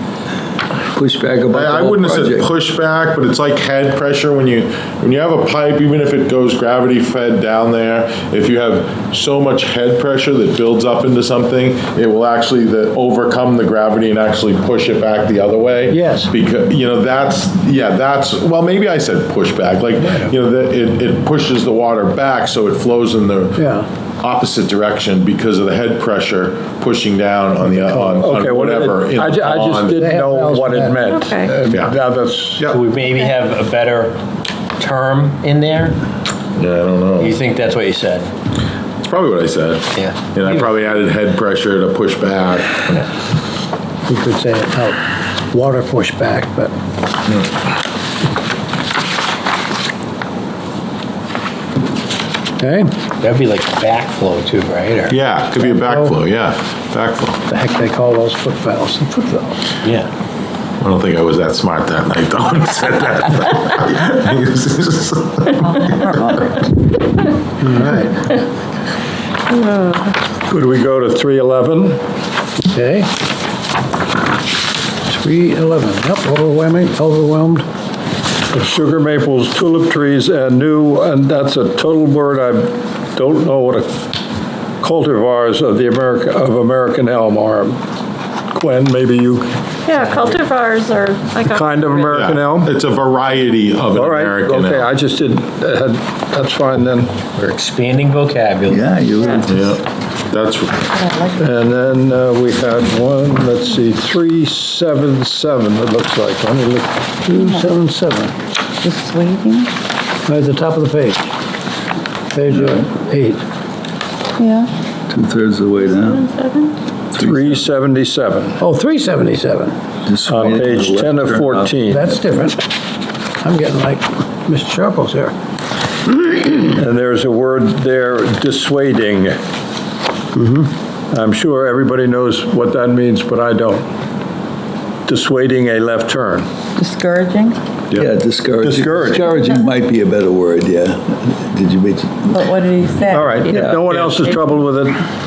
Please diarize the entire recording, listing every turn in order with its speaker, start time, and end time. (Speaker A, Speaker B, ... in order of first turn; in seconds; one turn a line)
Speaker A: 0.9-2.5
Speaker B: 1.5-23.6
Speaker C: 15.9-16.3
Speaker C: 23.6-23.9
Speaker B: 24.2-30.1
Speaker C: 27.9-28.2
Speaker D: 28.2-32.6
Speaker C: 29.9-31.1
Speaker E: 31.1-31.5
Speaker B: 31.7-31.9
Speaker F: 32.7-34.2
Speaker F: 34.8-36.0
Speaker B: 36.5-37.4
Speaker F: 37.2-38.3
Speaker B: 39.0-43.0
Speaker F: 40.0-40.5
Speaker C: 44.1-45.0
Speaker C: 45.5-46.7
Speaker C: 52.6-52.9
Speaker F: 53.2-55.1
Speaker B: 55.1-57.4
Speaker C: 55.8-56.1
Speaker C: 57.5-59.5
Speaker F: 59.8-60.1
Speaker B: 60.8-65.5
Speaker G: 65.7-66.5
Speaker C: 67.6-68.1
Speaker E: 69.5-70.2
Speaker D: 70.5-72.0
Speaker C: 72.7-73.1
Speaker C: 75.1-77.7
Speaker D: 78.5-83.9
Speaker D: 84.8-87.8
Speaker D: 88.5-89.5
Speaker E: 89.9-92.1
Speaker F: 89.9-90.3
Speaker D: 91.5-92.7
Speaker B: 92.1-94.9
Speaker D: 93.9-97.1
Speaker F: 97.4-99.0
Speaker A: 98.7-99.7
Speaker E: 99.2-99.5
Speaker B: 99.5-100.9
Speaker G: 100.9-101.5
Speaker D: 101.4-106.9
Speaker C: 107.2-108.3
Speaker G: 107.3-107.7
Speaker G: 108.8-109.7
Speaker C: 110.3-111.3
Speaker C: 112.3-113.4
Speaker A: 112.5-112.9
Speaker G: 114.4-114.7
Speaker A: 115.1-116.2
Speaker E: 115.8-116.8
Speaker A: 117.1-117.6
Speaker D: 117.1-118.6
Speaker C: 118.6-119.7
Speaker A: 120.0-121.8
Speaker D: 120.2-122.1
Speaker C: 121.9-122.7
Speaker C: 123.4-125.3
Speaker D: 126.2-129.4
Speaker D: 131.1-133.8
Speaker D: 135.1-136.5
Speaker G: 136.8-137.6
Speaker A: 137.9-142.4
Speaker D: 138.6-139.4
Speaker G: 142.3-143.4
Speaker D: 143.1-145.0
Speaker A: 143.5-143.9
Speaker E: 144.1-144.4